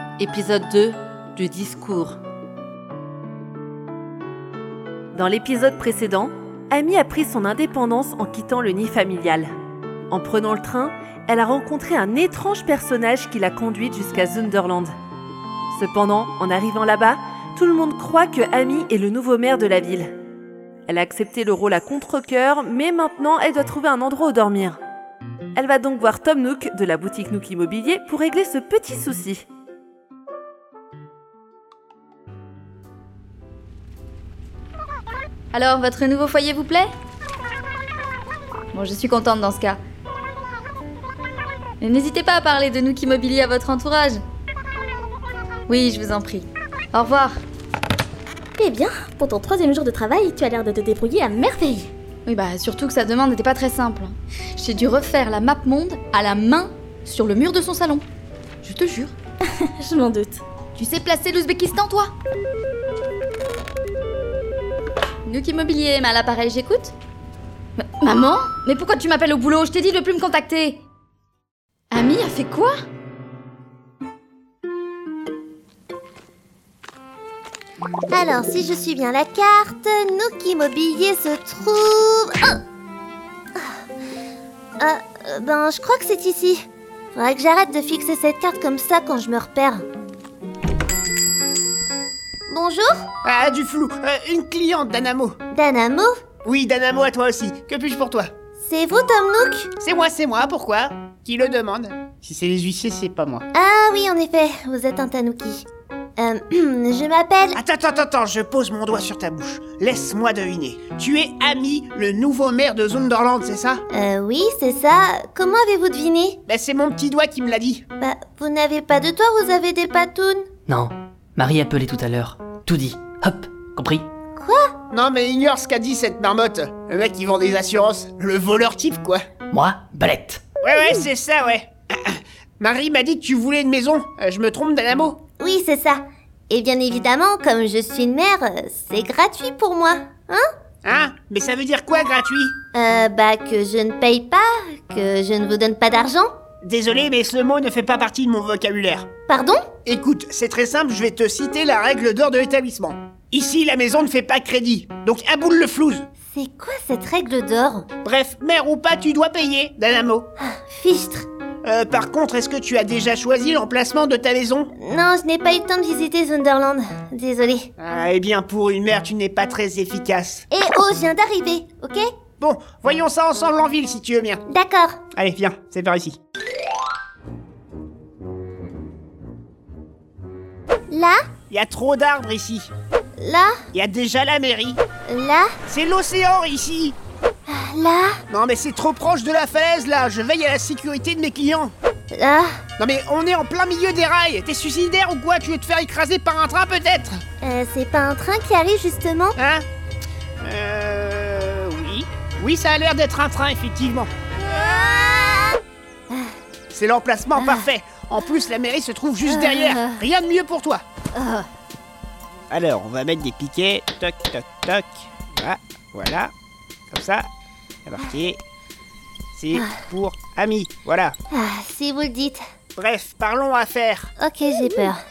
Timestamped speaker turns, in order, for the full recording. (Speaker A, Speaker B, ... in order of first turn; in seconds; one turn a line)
Speaker A: 0.2-0.7
Speaker A: 1.4-1.9
Speaker A: 5.1-9.5
Speaker A: 10.1-14.9
Speaker A: 15.7-20.1
Speaker A: 20.9-24.8
Speaker A: 25.6-29.4
Speaker B: 35.5-36.9
Speaker B: 38.7-39.8
Speaker B: 41.8-44.2
Speaker B: 45.7-47.4
Speaker C: 48.6-51.9
Speaker B: 52.2-58.0
Speaker B: 58.6-59.1
Speaker C: 59.7-60.4
Speaker B: 60.8-62.1
Speaker B: 65.2-66.9
Speaker B: 67.8-70.8
Speaker B: 71.9-72.8
Speaker D: 78.1-82.6
Speaker D: 84.8-86.6
Speaker D: 87.1-89.8
Speaker D: 92.5-93.0
Speaker E: 93.2-95.4
Speaker D: 95.5-96.1
Speaker E: 96.4-98.3
Speaker D: 98.6-99.7
Speaker E: 99.8-103.4
Speaker D: 103.5-105.7
Speaker D: 106.2-107.6
Speaker E: 107.5-113.8
Speaker D: 113.9-116.4
Speaker E: 116.5-117.8
Speaker D: 118.0-120.5
Speaker F: 120.7-124.1
Speaker D: 124.4-124.7
Speaker E: 124.9-129.2
Speaker F: 129.5-130.4
Speaker E: 130.6-135.2
Speaker D: 135.4-140.4
Speaker E: 140.8-142.6
Speaker D: 142.7-146.3
Speaker E: 146.6-149.1
Speaker D: 149.3-149.7
Speaker E: 149.8-156.1
Speaker D: 156.3-157.9
Speaker E: 158.0-160.3
Speaker D: 160.4-161.3
Speaker E: 161.6-164.7
Speaker D: 164.8-167.7
Speaker E: 167.8-170.4
Speaker D: 170.5-172.0
Speaker E: 172.4-174.4
Speaker D: 174.5-175.0
Speaker E: 175.1-176.2
Speaker D: 180.9-181.2
Speaker E: 181.5-182.7
Speaker D: 183.2-183.6
Speaker E: 183.7-184.8
Speaker D: 185.1-185.5
Speaker E: 185.7-186.9
Speaker D: 187.5-188.2
Speaker E: 188.3-191.7
Speaker D: 192.1-192.5
Speaker E: 192.8-197.2
Speaker D: 197.4-199.4
Speaker E: 199.4-199.6
Speaker E: 200.4-204.1
Speaker D: 204.5-205.6
Speaker E: 206.7-210.8
Speaker D: 207.3-207.7
Speaker D: 209.2-210.0
Speaker D: 211.1-211.4
Speaker E: 212.5-216.3
Speaker E: 216.9-217.2
Speaker E: 217.8-218.4
Speaker E: 219.3-221.1
Speaker D: 219.5-219.8
Speaker D: 221.3-222.4
Speaker E: 222.8-224.1
Speaker D: 224.2-225.0